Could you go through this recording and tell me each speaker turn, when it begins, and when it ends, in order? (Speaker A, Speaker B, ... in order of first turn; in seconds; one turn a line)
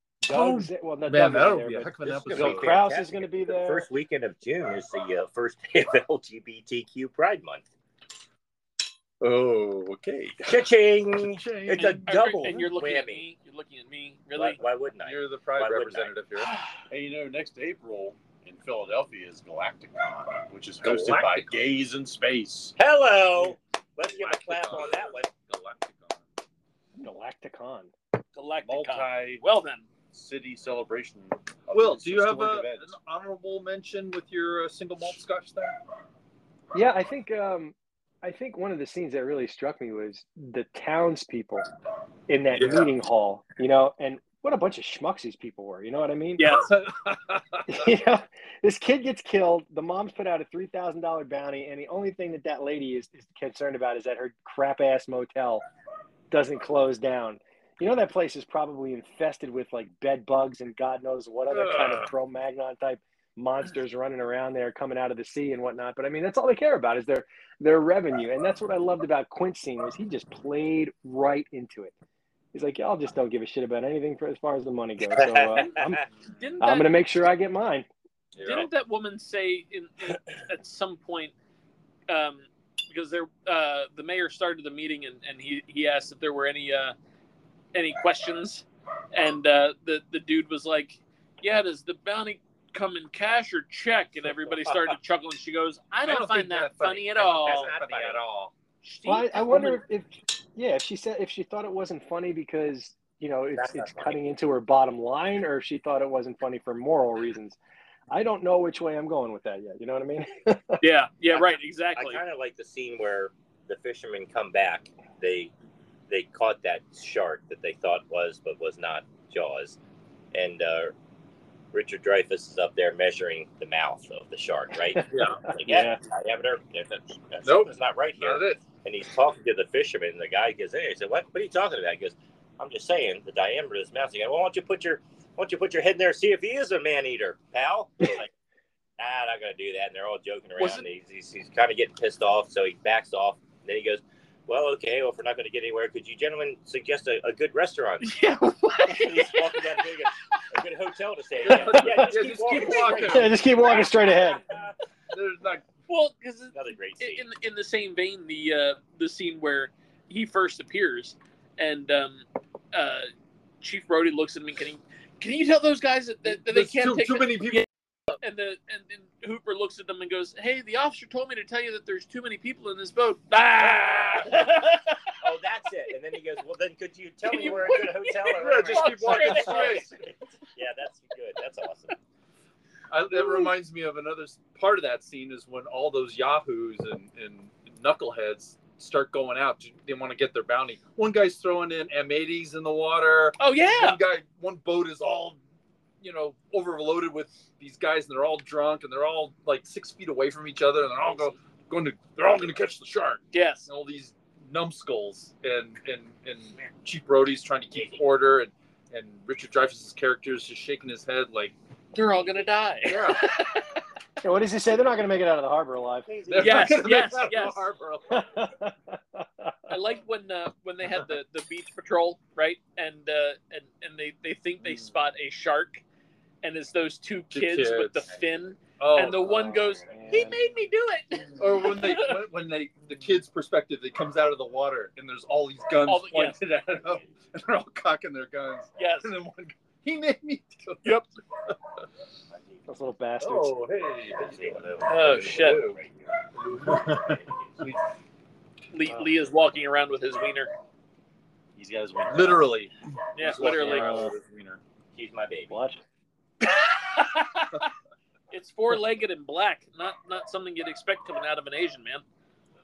Speaker A: 0.2-3.9
Speaker B: 0.3-2.8
Speaker C: 2.0-7.7
Speaker B: 9.2-10.7
Speaker C: 10.4-13.2
Speaker B: 11.2-12.2
Speaker D: 11.8-14.6
Speaker C: 14.3-16.1
Speaker B: 15.0-16.5
Speaker E: 16.9-22.8
Speaker B: 20.8-21.7
Speaker C: 22.8-25.3
Speaker B: 24.1-26.2
Speaker A: 27.0-27.9
Speaker D: 28.3-29.9
Speaker E: 28.6-29.4
Speaker E: 30.1-33.0
Speaker B: 31.7-35.8
Speaker A: 36.7-41.6
Speaker A: 42.3-46.5
Speaker B: 42.5-42.9
Speaker D: 46.4-46.7
Speaker B: 46.5-47.9
Speaker A: 47.7-55.6
Speaker A: 56.3-71.9
Speaker B: 61.5-62.1
Speaker A: 72.5-76.0
Speaker C: 75.0-76.0
Speaker D: 76.2-77.0
Speaker A: 76.6-77.9
Speaker B: 78.4-78.7
Speaker D: 78.4-81.3
Speaker D: 82.1-86.9
Speaker D: 87.7-97.7
Speaker C: 94.5-94.9
Speaker B: 96.0-98.5
Speaker C: 97.4-98.2
Speaker D: 98.8-99.8
Speaker A: 99.0-107.6
Speaker C: 103.5-104.2
Speaker A: 108.1-110.8
Speaker D: 110.8-112.2
Speaker C: 111.3-115.5
Speaker C: 116.1-119.8
Speaker C: 120.3-120.9
Speaker C: 121.7-138.3
Speaker B: 125.1-125.5
Speaker A: 125.2-126.0
Speaker B: 127.4-128.6
Speaker C: 139.0-148.1
Speaker D: 140.6-140.8
Speaker D: 148.0-149.8
Speaker C: 148.8-153.2
Speaker B: 151.4-153.3
Speaker A: 151.5-154.4
Speaker D: 152.5-153.1
Speaker B: 155.1-155.7
Speaker D: 155.9-163.1
Speaker C: 156.5-157.2
Speaker D: 163.6-167.6
Speaker B: 166.2-168.2
Speaker D: 168.2-174.9
Speaker C: 175.2-181.9
Speaker D: 177.2-179.9
Speaker B: 178.3-179.9
Speaker B: 182.9-195.4
Speaker D: 193.4-194.0
Speaker B: 196.0-211.5
Speaker D: 203.3-203.7
Speaker D: 211.9-213.8
Speaker B: 212.8-213.4
Speaker A: 214.2-216.1
Speaker C: 216.1-216.8
Speaker B: 216.2-218.3
Speaker D: 216.4-217.6
Speaker A: 218.1-219.6
Speaker D: 219.7-225.8
Speaker D: 226.4-232.2
Speaker B: 227.3-228.1
Speaker B: 228.8-229.4
Speaker A: 229.3-230.5
Speaker B: 231.4-241.6
Speaker D: 235.8-236.4
Speaker D: 238.8-239.1
Speaker C: 242.3-242.6
Speaker A: 242.7-243.6
Speaker B: 243.2-245.8
Speaker C: 244.0-247.7
Speaker D: 244.9-245.7
Speaker B: 246.4-247.8
Speaker D: 248.7-250.5
Speaker E: 251.6-252.6
Speaker B: 252.1-254.6
Speaker D: 253.2-254.1
Speaker E: 253.4-253.9
Speaker A: 253.6-254.1
Speaker C: 254.9-255.5
Speaker A: 255.5-255.8
Speaker D: 256.4-257.6
Speaker D: 258.3-262.0